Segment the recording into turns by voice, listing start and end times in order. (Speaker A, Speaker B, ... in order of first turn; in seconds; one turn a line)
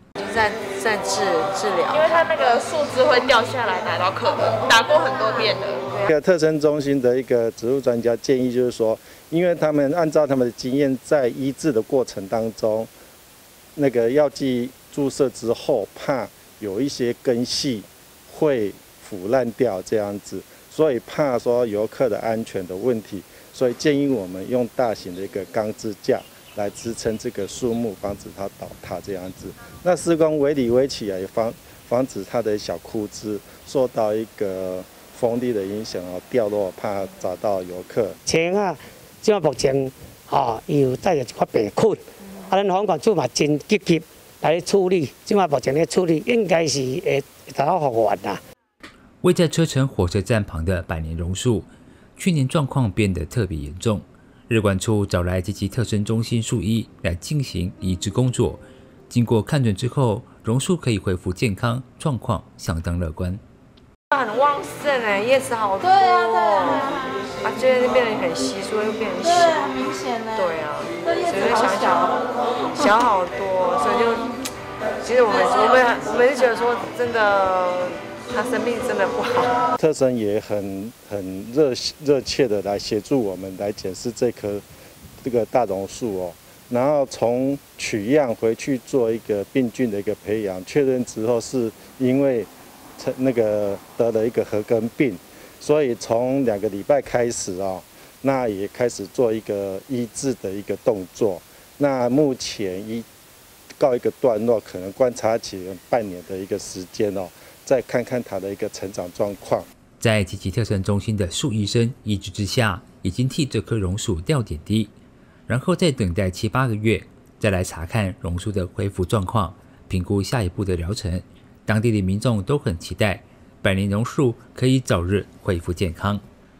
Speaker A: 0.2-2.4
Speaker B: 1.9-5.8
Speaker C: 6.1-12.9
Speaker C: 13.8-38.2
Speaker D: 38.2-48.4
Speaker E: 49.2-63.4
Speaker A: 64.1-74.4
Speaker A: 75.0-79.6
Speaker C: 79.8-84.6
Speaker C: 85.2-103.0
Speaker C: 103.8-109.7
Speaker E: 110.0-114.9
Speaker E: 115.5-126.2